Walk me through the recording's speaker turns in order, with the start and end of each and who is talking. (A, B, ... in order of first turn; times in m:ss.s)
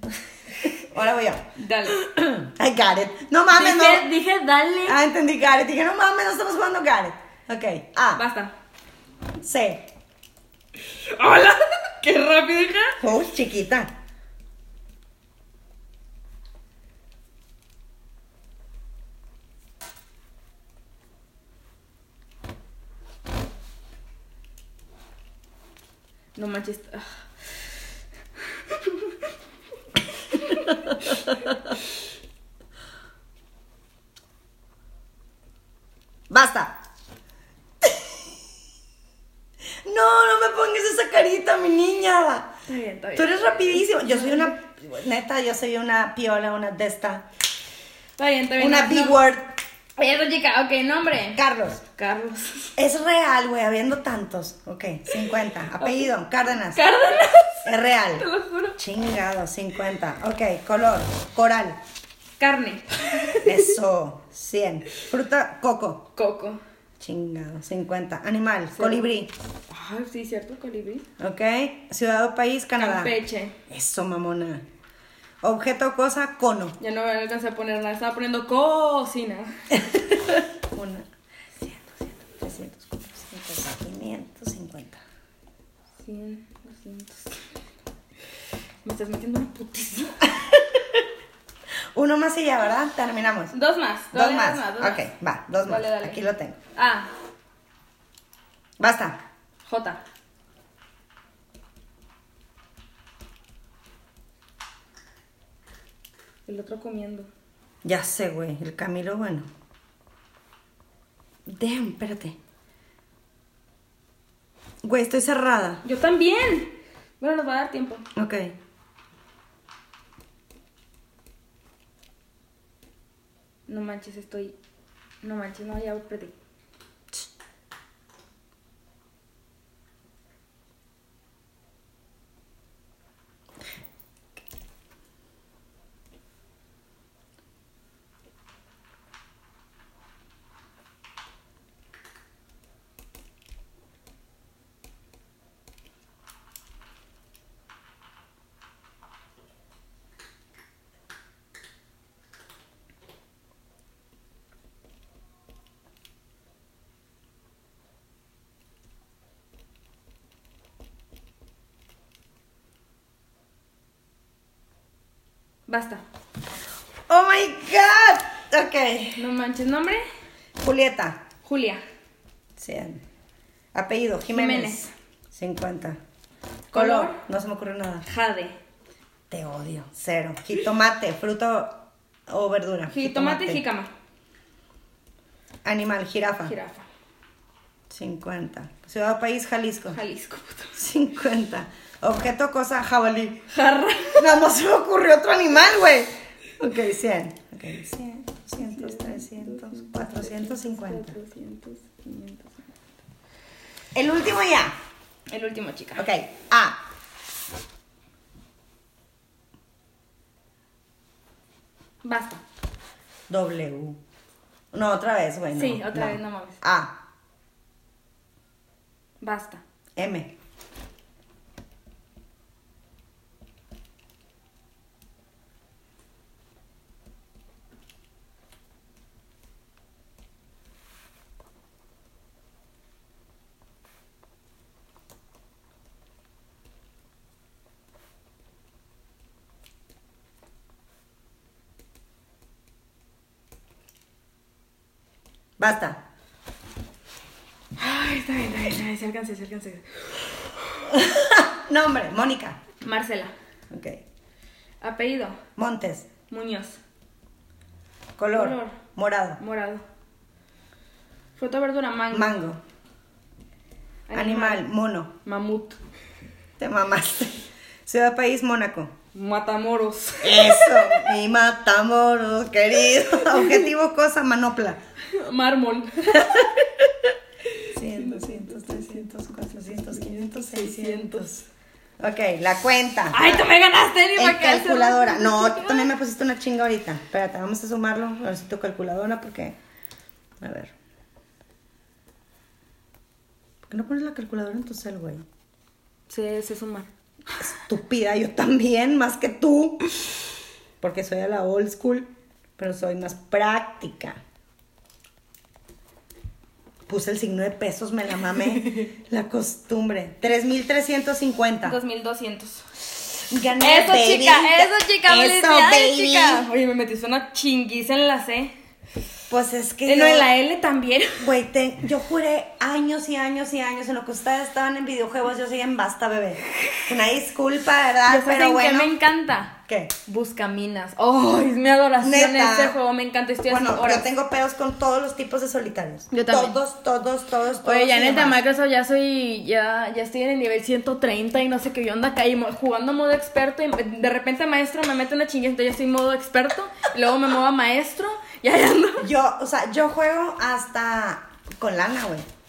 0:00.6-0:04.1 A
0:01.6-0:02.0 B
0:03.5-0:05.0 B
0:04.8-0:08.2 A
0:08.1-0:08.5 B
0:09.4-0:09.8 A
0:10.8-0:13.0 B
0:13.0-0:13.9 A
0:26.3-0:27.2 B
0:28.6-0:29.2 B
0:30.2-0:31.3 B
0:36.3-0:36.8 A
0:37.8-0:38.1 A
0:39.8-0:42.5 A
0:42.7-0:44.5 B
0:43.1-0:47.2 A
0:48.2-0:49.2 B
0:48.6-0:49.5 A
0:50.0-0:51.4 B
0:51.3-0:51.8 A
0:51.9-0:52.7 B
0:52.8-0:56.8 A
0:55.8-0:56.1 B
0:56.7-0:58.8 B
0:57.6-1:01.8 A
1:02.4-1:03.7 B
1:03.4-1:06.1 A
1:06.2-1:06.6 B
1:07.0-1:09.3 A
1:08.7-1:09.1 B
1:09.7-1:11.0 B
1:11.2-1:13.1 A
1:12.8-1:13.5 B
1:13.7-1:14.6 A
1:15.4-1:16.8 A
1:16.8-1:19.8 B
1:19.8-1:21.0 A
1:21.6-1:21.9 B
1:22.4-1:25.0 A
1:26.0-1:27.4 B
1:28.8-1:30.3 B
1:30.3-1:31.0 A
1:31.9-1:33.5 A
1:33.5-1:35.0 B
1:34.1-1:36.6 A
1:35.6-1:36.2 B
1:36.7-1:37.1 B
1:38.8-1:39.2 A
1:39.6-1:40.0 B
1:46.4-1:47.3 B
1:47.8-1:49.5 A
1:51.5-1:52.4 A
1:54.8-1:55.8 A
1:55.8-1:58.0 B
1:58.1-1:58.5 A
2:03.7-2:04.6 B
2:05.2-2:06.3 B
2:45.7-2:46.0 B
2:47.1-2:49.3 A
2:49.2-2:50.0 B
2:50.6-2:51.2 A
2:51.4-2:51.8 B
2:52.6-2:53.0 A
2:53.7-2:56.0 A
2:54.3-2:54.9 B
2:56.7-2:57.2 B
2:56.7-2:58.0 A
2:58.0-2:58.6 B
2:59.3-3:03.6 A
3:02.9-3:03.9 B
3:05.6-3:06.5 A
3:06.4-3:06.8 B
3:07.9-3:10.0 A
3:09.9-3:10.8 B
3:10.8-3:13.4 A
3:13.5-3:14.4 B
3:14.2-3:21.2 A
3:18.6-3:22.7 B
3:23.9-3:24.7 A
3:25.3-3:26.0 B
3:26.0-3:26.8 A
3:32.0-3:32.4 B
3:33.3-3:34.0 A
3:34.7-3:37.0 A
3:35.5-3:36.6 B
3:39.2-3:39.6 B
3:40.0-3:40.3 A
4:05.6-4:06.0 A
4:07.8-4:10.3 B
4:10.9-4:12.6 A
4:12.8-4:13.3 B
4:13.7-4:14.0 A
4:14.8-4:15.4 B
4:15.6-4:16.1 A
4:16.3-4:16.8 B
4:18.2-4:19.4 A
4:18.3-4:18.8 B
4:19.4-4:19.8 B
4:21.4-4:22.3 B
4:22.1-4:22.6 A
4:24.1-4:24.6 B
4:24.1-4:25.1 A
4:25.2-4:25.8 B
4:26.6-4:27.3 A
4:27.8-4:28.9 A
4:29.1-4:31.0 B
4:30.2-4:34.8 A
4:33.2-4:33.6 B
4:35.1-4:36.8 B
4:37.5-4:41.3 B
4:37.7-4:41.4 A
4:42.0-4:43.5 A
4:43.1-4:45.9 B
4:44.2-4:49.6 A
4:50.4-4:50.7 A
4:53.6-4:55.2 A
4:56.1-4:56.9 B
4:57.4-4:59.8 A
5:00.8-5:04.2 A
5:06.9-5:11.8 A
5:08.4-5:08.8 B
5:11.6-5:18.5 B
5:13.3-5:16.4 A
5:19.3-5:20.3 A
5:19.8-5:21.3 B
5:21.2-5:28.9 A
5:28.0-5:34.1 B
5:29.7-5:29.9 A
5:32.0-5:32.8 A
5:33.5-5:38.4 A
5:36.1-5:36.6 B
5:37.6-5:49.1 B
5:49.0-5:52.2 A